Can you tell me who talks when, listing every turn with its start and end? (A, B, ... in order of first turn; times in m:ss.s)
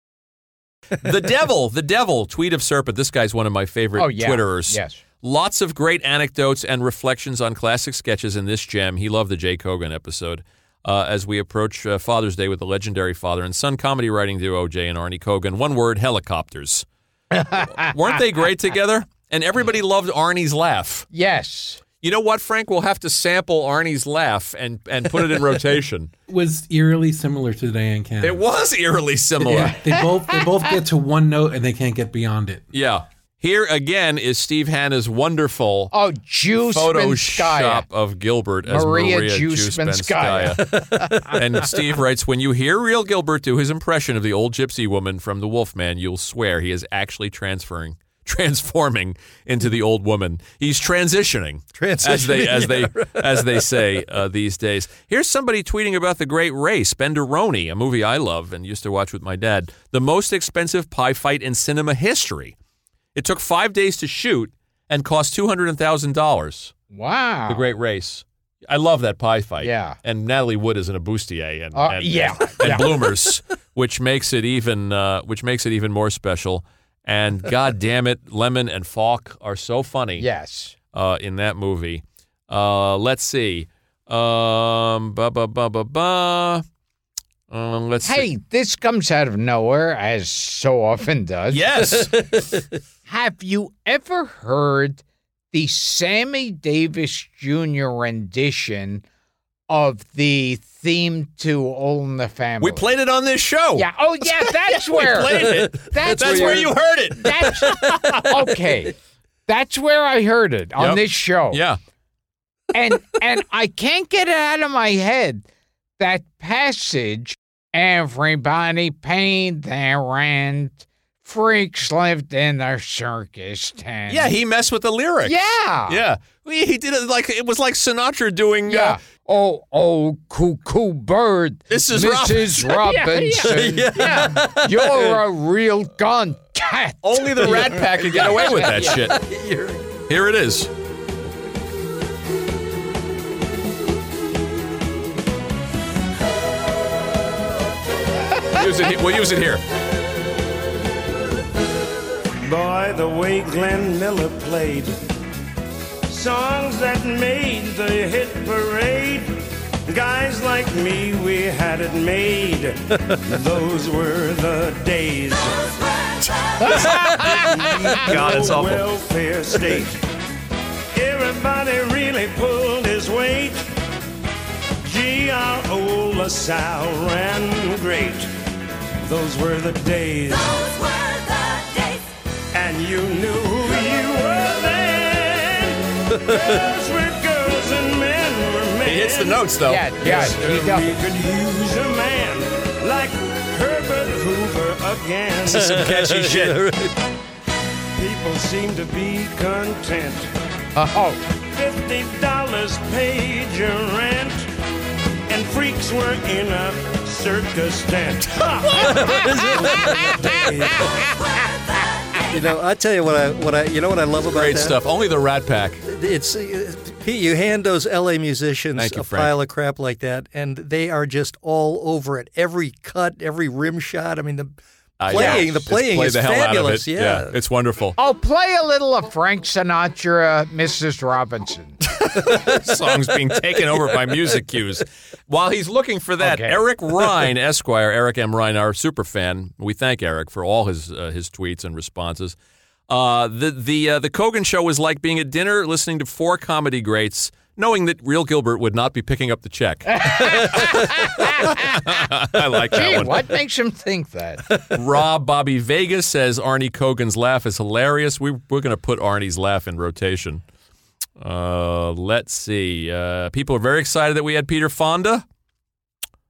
0:01.0-0:16.8 A
0:04.0-0:05.0 B
0:17.3-0:17.9 B
0:17.7-0:21.0 A
0:21.1-0:21.8 B
0:22.0-0:26.1 A
0:26.3-0:28.4 C
0:28.2-0:29.8 A
0:29.4-0:32.6 C
0:29.5-0:30.7 B
0:32.7-0:35.9 A
0:35.9-0:37.8 B
0:36.7-1:02.6 A
0:38.7-0:41.3 B
0:40.9-0:41.4 D
0:51.8-0:53.6 D
1:03.1-1:06.7 A
1:06.9-1:07.6 B
1:07.5-1:20.2 A
1:09.6-1:10.0 B
1:11.7-1:12.9 B
1:20.2-1:20.7 B
1:20.9-1:26.6 A
1:27.5-1:28.2 A
1:28.0-1:31.6 B
1:31.5-1:32.3 A
1:32.3-1:32.6 D
1:33.1-1:39.0 B
1:39.7-1:42.9 B
1:42.6-1:48.3 A
1:43.8-1:48.9 B
1:45.7-1:46.8 D
1:47.6-1:48.2 D
1:49.5-1:51.6 B
1:50.8-1:51.8 A
1:52.7-1:55.4 B
1:56.0-2:04.3 B
2:04.1-2:09.0 A
2:05.2-2:06.0 B
2:08.7-2:19.0 B
2:11.7-2:13.0 A
2:13.3-2:15.2 D
2:17.0-2:19.2 A
2:17.4-2:19.9 D
2:20.1-2:20.7 A
2:28.5-2:29.6 A
2:32.4-2:35.0 E
2:36.1-2:45.8 E
2:46.6-2:47.5 B
2:47.2-2:50.0 E
2:48.0-2:48.8 A
2:50.9-2:53.7 E
2:54.8-2:58.3 E
2:59.0-3:00.8 E
3:02.5-3:15.7 E
3:08.8-3:10.3 A
3:09.6-3:11.0 B
3:15.5-3:16.6 A
3:15.5-3:17.0 D
3:17.9-3:20.3 E
3:20.8-3:21.2 B
3:21.5-3:24.5 E
3:25.3-3:30.9 E
3:28.9-3:30.2 D
3:32.3-3:34.8 D
3:34.3-3:35.8 A
3:35.8-3:47.3 D
3:38.8-3:39.3 A
3:45.0-3:48.0 A
3:45.1-3:45.4 B
3:48.0-3:51.8 B
3:51.9-4:02.3 A
3:56.2-3:56.6 B
4:02.9-4:13.2 A
4:09.9-4:11.8 B
4:12.7-4:14.4 B
4:14.6-4:20.4 A
4:21.2-4:25.2 A